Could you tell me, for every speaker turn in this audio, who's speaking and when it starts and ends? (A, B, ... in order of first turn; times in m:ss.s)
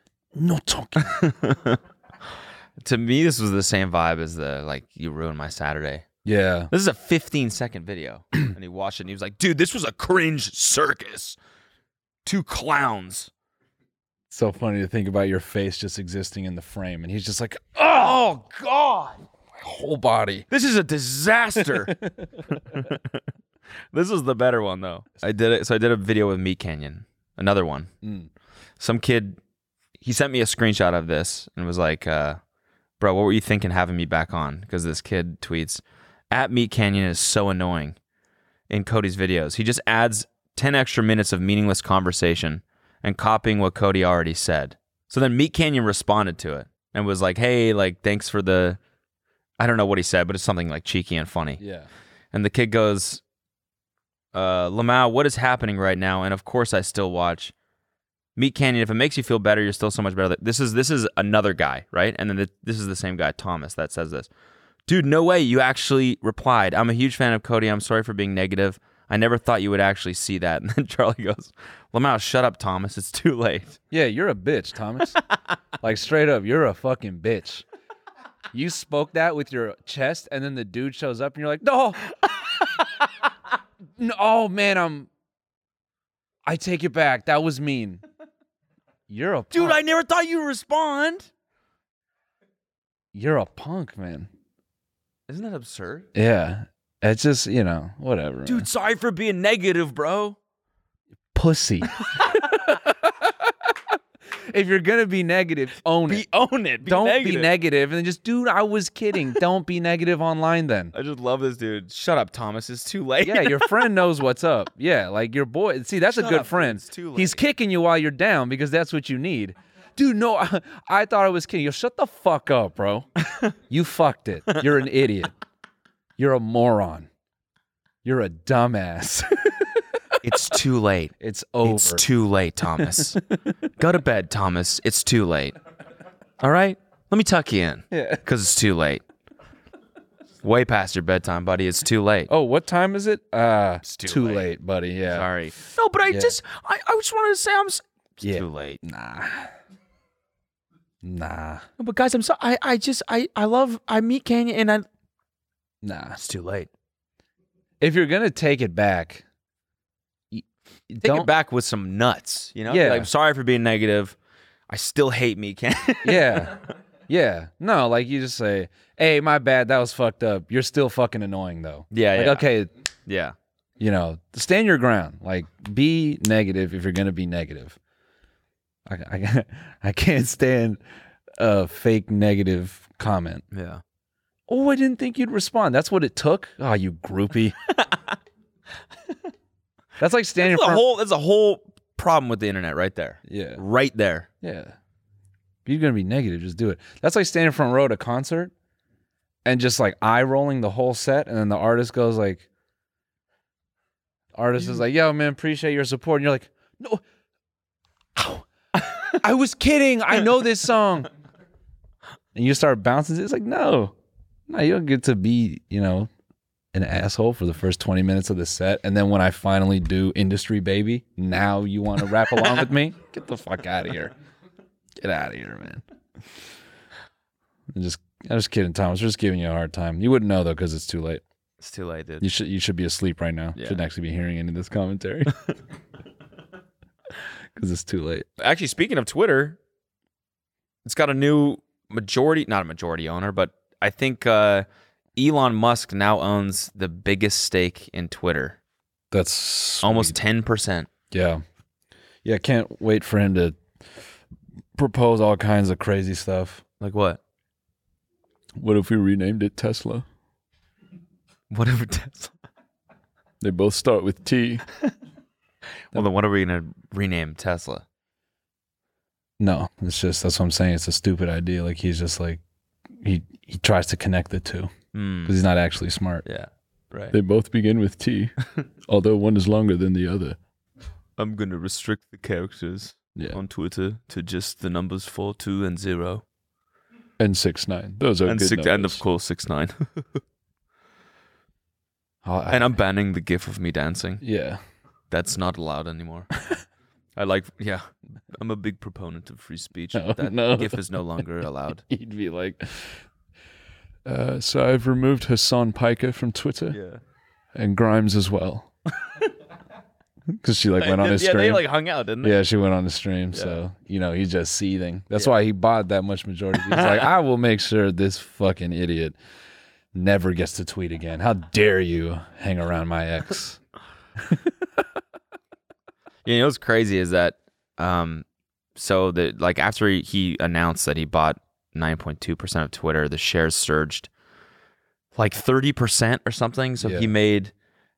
0:00.3-0:01.2 A
0:01.1-0:01.8 B
0:02.8-0:06.0 B
0:06.2-0:06.7 A
0:06.7-0:11.4 B
0:12.2-0:13.3 B
0:14.3-0:18.2 A
0:17.9-0:19.2 B
0:19.6-0:20.5 A
0:20.5-0:22.0 B
0:21.6-0:22.3 A
0:22.5-0:23.2 B
0:23.9-0:27.9 B
0:28.0-0:28.3 A
0:28.8-0:29.4 B
0:30.0-0:32.4 B
0:33.0-0:38.0 B
0:38.7-0:48.8 B
0:49.6-0:51.6 B
0:51.6-0:51.9 A
0:52.3-0:53.2 B
0:54.3-0:57.5 B
0:58.4-1:04.3 B
1:04.9-1:13.8 B
1:13.9-1:15.2 A
1:15.8-1:17.6 A
1:18.5-1:22.0 A
1:24.0-1:25.1 A
1:26.4-1:28.0 A
1:29.1-1:29.8 A
1:29.5-1:31.3 B
1:33.1-1:34.3 A
1:35.3-1:36.1 B
1:36.1-1:38.7 A
1:38.4-1:40.4 B
1:41.3-1:43.5 A
1:44.5-1:46.2 A
1:46.1-1:47.5 B
1:46.8-1:50.9 A
1:50.9-1:53.8 B
1:53.2-2:03.1 A
1:56.1-1:57.4 B
2:03.7-2:05.3 A
2:06.2-2:07.1 A
2:08.0-2:10.4 A
2:10.2-2:11.1 B
2:11.2-2:12.1 A
2:11.6-2:13.2 B
2:12.7-2:13.2 A
2:13.8-2:15.6 B
2:16.4-2:19.0 B
2:17.9-2:18.2 A
2:20.4-2:22.3 B
2:22.3-2:25.3 A
2:23.8-2:24.5 B
2:25.1-2:28.8 B
2:26.1-2:26.4 A
2:28.2-2:29.5 A
2:31.0-2:31.6 A
2:31.8-2:34.8 B
2:35.8-2:36.2 A
2:36.2-2:36.7 B
2:37.8-2:39.2 A
2:40.3-2:41.3 A
2:41.0-2:44.1 B
2:42.7-2:43.1 A
2:44.7-2:46.6 B
2:46.0-2:52.7 A
2:51.9-2:52.4 B
2:53.1-2:53.3 B
2:53.8-2:57.8 A
2:58.8-3:00.8 A
3:01.4-3:03.4 A
3:03.5-3:03.8 B
3:04.5-3:07.6 A
3:10.0-3:10.8 A
3:10.4-3:14.3 B
3:13.2-3:13.6 A
3:14.4-3:14.8 A
3:15.6-3:18.5 A
3:19.4-3:22.5 A
3:24.3-3:27.0 A
3:28.2-3:28.4 A
3:29.1-3:31.1 A
3:32.3-3:33.9 A
3:34.5-3:36.1 A
3:36.7-3:44.1 A
3:45.0-3:45.8 A
3:47.7-3:51.2 A
3:51.6-3:52.2 B
3:52.2-3:55.3 A
3:53.6-3:53.8 B
3:57.6-3:58.2 A
3:58.4-3:59.6 B
4:00.8-4:08.6 B
4:09.1-4:10.2 A
4:09.8-4:10.9 B
4:11.1-4:11.4 A
4:12.2-4:13.6 A
4:14.7-4:16.6 A
4:16.8-4:17.2 B
4:18.6-4:20.0 A
4:21.5-4:22.3 B
4:23.4-4:24.6 A
4:25.9-4:27.8 B
4:29.4-4:32.4 A
4:33.0-4:34.7 A
4:34.9-4:35.4 B
4:35.2-4:36.2 A
4:36.2-4:37.2 B
4:37.1-4:38.3 A
4:38.9-4:40.4 A
4:41.2-4:46.2 B
4:47.2-4:49.0 A
4:48.2-4:50.2 B
4:52.2-4:52.7 A
4:52.5-4:54.2 B
4:54.2-4:54.6 A
4:55.1-4:56.3 B
4:57.2-5:01.8 B
4:59.9-5:01.2 A
5:01.9-5:03.0 A
5:04.0-5:06.8 A
5:06.7-5:07.0 B
5:07.5-5:08.7 A
5:10.3-5:11.6 A
5:10.8-5:12.4 B
5:12.2-5:19.2 A
5:13.3-5:13.6 B
5:16.6-5:17.1 B
5:19.9-5:23.6 A
5:24.2-5:24.5 A
5:26.2-5:28.2 B
5:28.8-5:34.1 B
5:35.1-5:37.5 B
5:36.8-5:37.1 A